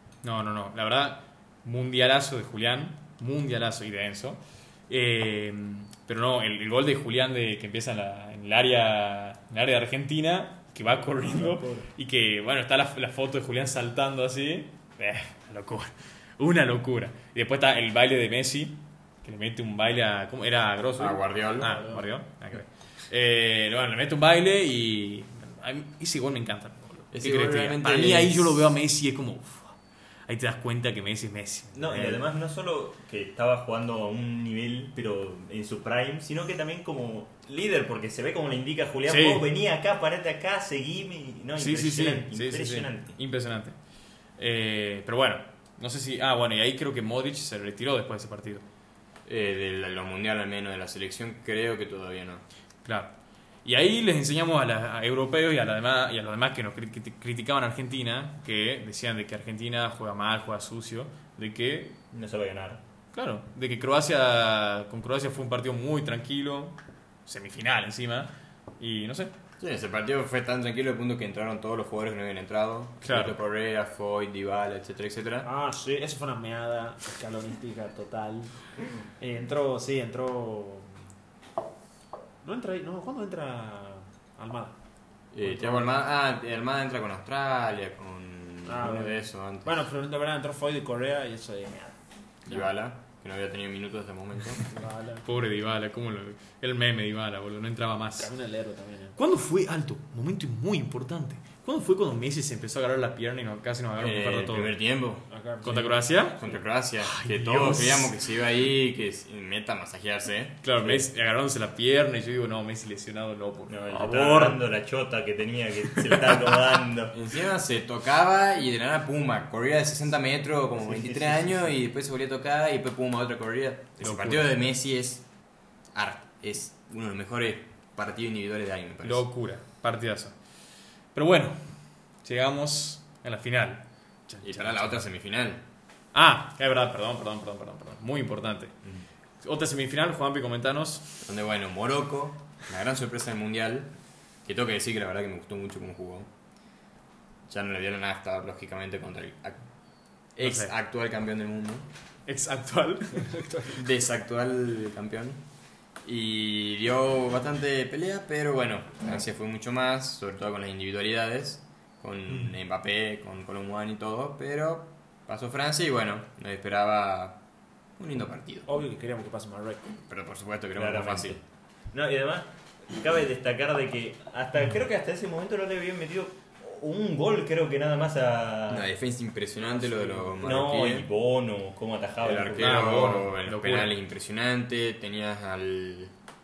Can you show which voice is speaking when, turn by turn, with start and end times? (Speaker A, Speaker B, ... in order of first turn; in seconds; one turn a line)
Speaker A: 0.2-29.8
Speaker B: 11.0-11.9
Speaker C: 21.0-21.8
Speaker B: 21.6-22.1
Speaker C: 27.1-28.7
Speaker A: 30.3-32.2
Speaker D: 31.7-43.1
Speaker A: 39.1-39.4
Speaker A: 41.6-43.8
Speaker A: 44.4-48.6
Speaker C: 49.2-52.4
Speaker A: 52.8-53.1
Speaker A: 53.6-62.0
Speaker D: 62.1-62.8
Speaker A: 63.1-69.3
Speaker C: 69.6-75.5
Speaker A: 73.0-73.4
Speaker B: 75.4-78.5
Speaker B: 79.2-81.0
Speaker B: 82.4-84.7
Speaker C: 85.3-89.8
Speaker B: 85.4-86.0
Speaker B: 88.6-92.0
Speaker C: 92.5-94.7
Speaker B: 94.7-95.2
Speaker A: 95.2-98.3
Speaker B: 98.2-99.2
Speaker A: 99.2-104.7
Speaker C: 104.0-105.8
Speaker B: 105.3-106.1
Speaker A: 105.6-106.4
Speaker C: 106.4-111.0
Speaker A: 107.0-108.1
Speaker A: 110.6-114.6
Speaker D: 113.7-117.2
Speaker C: 117.1-125.2
Speaker D: 120.8-121.6
Speaker A: 124.0-124.5
Speaker C: 125.9-129.3
Speaker A: 129.0-130.4
Speaker A: 131.1-131.7
Speaker A: 132.2-134.9
Speaker C: 134.4-135.6
Speaker A: 136.1-138.7
Speaker A: 139.4-141.1
Speaker C: 141.2-143.9
Speaker C: 144.4-146.3
Speaker C: 147.5-149.6
Speaker C: 150.4-151.9
Speaker A: 150.4-150.7
Speaker A: 152.3-153.3
Speaker B: 153.2-153.8
Speaker C: 153.7-155.4
Speaker C: 156.0-167.4
Speaker C: 168.0-168.7
Speaker B: 168.7-169.9
Speaker C: 170.1-171.4
Speaker D: 170.7-171.4
Speaker D: 171.9-178.9
Speaker C: 178.7-181.1
Speaker D: 180.3-183.1
Speaker C: 182.2-186.1
Speaker A: 182.6-183.9